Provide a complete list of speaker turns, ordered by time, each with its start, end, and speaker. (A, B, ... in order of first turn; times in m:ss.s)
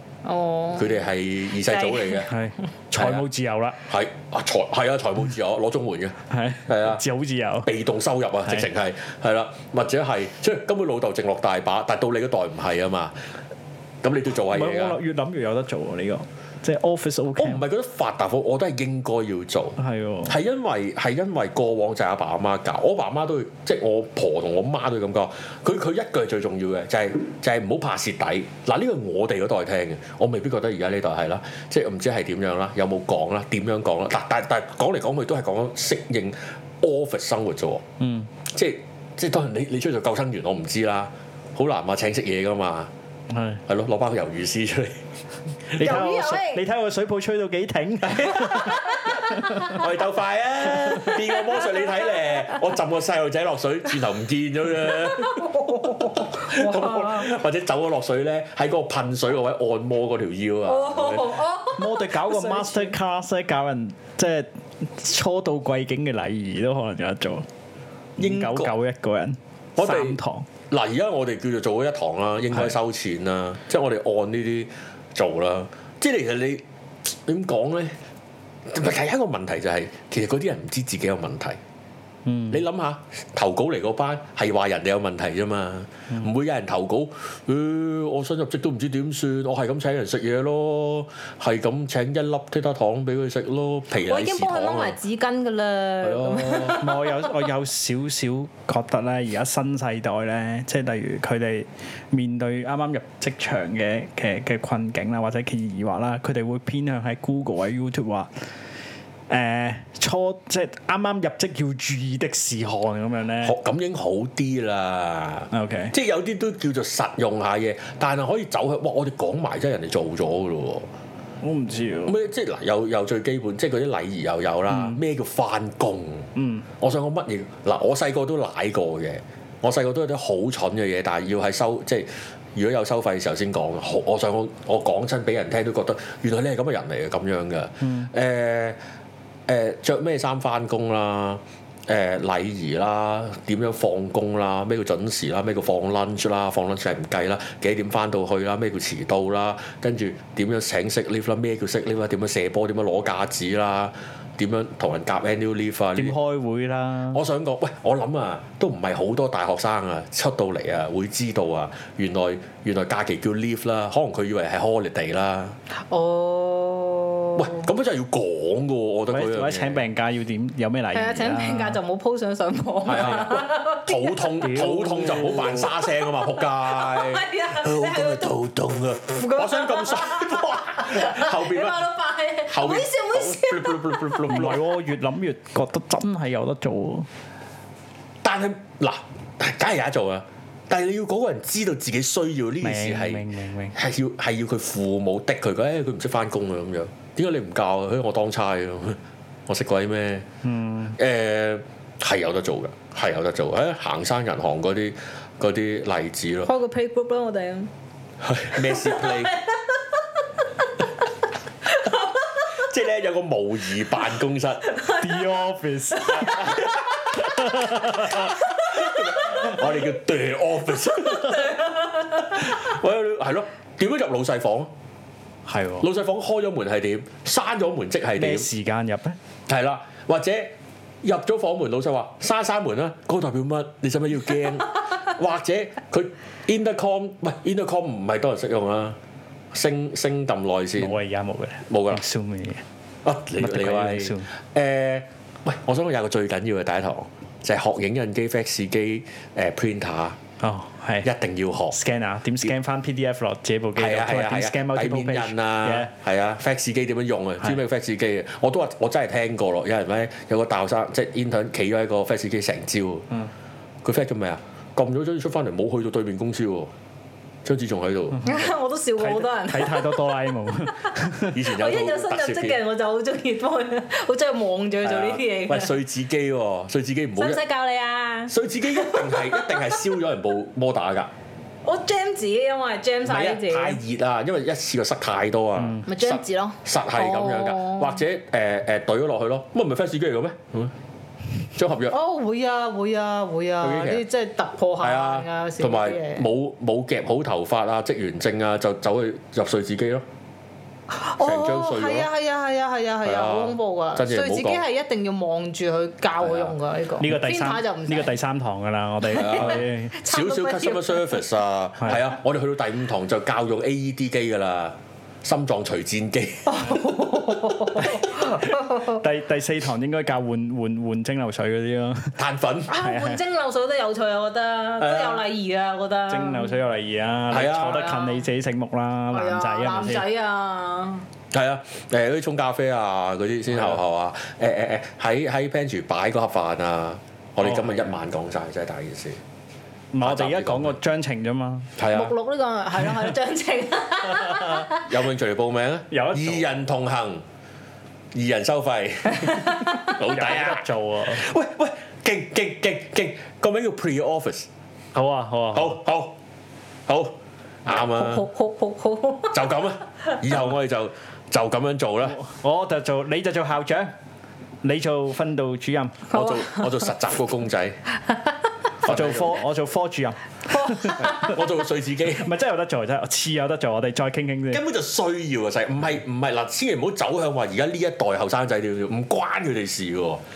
0:00.2-0:01.0 A
0:00.8-0:02.3 B
0:01.6-0:02.3 A
0:02.3-0:03.8 C
0:03.0-0:03.3 B
0:03.8-0:07.0 B
0:06.3-0:07.7 C
0:07.6-0:13.2 B
0:14.0-0:15.0 B
0:14.5-0:17.6 C
0:17.4-0:37.8 B
0:19.8-0:20.4 C
0:38.0-0:38.3 C
0:38.5-0:42.9 B
0:43.3-0:43.6 C
0:43.7-0:45.0 B
0:45.8-0:49.8 C
0:45.8-0:46.7 A
0:48.1-1:01.4 B
0:49.4-0:49.7 A
0:50.8-0:52.7 A
0:54.9-0:57.4 A
1:00.7-1:02.9 A
1:01.8-1:07.5 C
1:08.2-1:08.8 B
1:08.2-1:10.5 C
1:09.8-1:10.2 B
1:10.7-1:18.0 B
1:18.7-1:21.6 B
1:22.3-1:22.6 C
1:22.5-1:35.0 B
1:34.1-1:37.3 A
1:36.0-1:36.8 B
1:36.7-1:48.3 C
1:49.3-1:53.6 C
1:53.4-2:00.9 B
1:55.5-1:55.9 C
2:01.4-2:02.2 C
2:02.1-2:18.8 B
2:04.7-2:05.0 C
2:06.4-2:06.6 C
2:17.8-2:18.1 C
2:19.5-2:36.2 B
2:36.0-2:37.2 C
2:37.1-2:45.6 B
2:45.9-2:47.6 A
2:47.4-2:49.8 B
2:49.1-2:51.8 C
2:50.9-2:54.3 A
2:52.8-3:01.9 B
2:54.4-2:55.7 C
2:56.0-2:58.4 A
2:59.1-3:04.5 A
3:02.5-3:04.6 B
3:04.3-3:07.1 C
3:08.2-3:20.3 B
3:12.6-3:13.8 C
3:20.4-3:21.0 C
3:21.0-3:26.5 B
3:26.5-3:27.7 A
3:28.2-3:29.4 B
3:28.6-3:30.7 A
3:31.6-3:32.6 A
3:32.5-3:34.7 B
3:34.7-3:37.2 A
3:35.0-3:36.5 C
3:36.1-3:44.7 B
3:37.2-3:38.3 C
3:37.7-3:39.6 A
3:41.1-3:42.2 A
3:45.5-3:45.9 C
3:45.8-3:48.5 B
3:48.2-3:49.2 C
3:49.5-3:59.0 B
3:59.5-4:01.0 B
4:00.8-4:02.6 C
4:01.7-4:02.0 B
4:03.0-4:10.2 B
4:03.4-4:04.3 C
4:10.4-4:11.1 C
4:11.0-4:11.8 B
4:11.7-4:15.9 C
4:13.8-4:23.1 B
4:23.8-4:26.7 B
4:27.4-4:28.2 B
4:28.2-4:35.8 A
4:29.0-4:31.4 C
4:31.3-4:32.6 B
4:34.8-4:37.4 B
4:37.2-4:39.9 A
4:38.3-4:41.1 B
4:41.6-4:43.8 A
4:43.0-4:50.7 B
4:45.9-4:48.0 A
4:51.5-4:52.0 B
4:51.9-4:56.3 A
4:53.6-4:54.0 B
4:54.8-5:00.1 B
5:00.9-5:08.2 A
5:01.2-5:02.1 B
5:03.0-5:04.6 B
5:06.2-5:06.5 B
5:07.0-5:10.0 C
5:09.1-5:11.3 A
5:09.1-5:16.9 B
5:11.8-5:12.1 C
5:16.5-5:19.0 A
5:17.8-5:22.2 C
5:22.2-5:22.8 B
5:22.7-5:26.6 A
5:22.8-5:23.2 C
5:24.8-5:25.3 B
5:26.1-5:30.0 C
5:27.3-5:27.9 B
5:27.7-5:28.2 A
5:29.1-5:31.1 A
5:31.3-5:39.2 B
5:33.5-5:33.8 C
5:39.9-5:41.7 C
5:40.0-5:40.8 B
5:41.8-5:42.1 B
5:41.9-5:44.9 A
5:44.1-5:44.6 C
5:44.8-5:47.2 B
5:45.9-5:46.5 C
5:48.1-5:54.5 B
5:49.1-5:49.9 A
5:49.8-5:51.2 C
5:54.9-5:55.8 C
5:55.5-5:56.2 B
5:56.9-5:58.3 B
5:57.7-5:59.4 A
5:59.3-6:02.2 B
6:02.1-6:03.9 C
6:04.6-6:06.1 C
6:06.1-6:07.8 B
6:06.1-6:06.9 A
6:08.8-6:09.4 B
6:08.8-6:11.3 C
6:10.5-6:11.3 A
6:11.0-6:12.3 B
6:12.2-6:14.6 C
6:14.5-6:20.2 B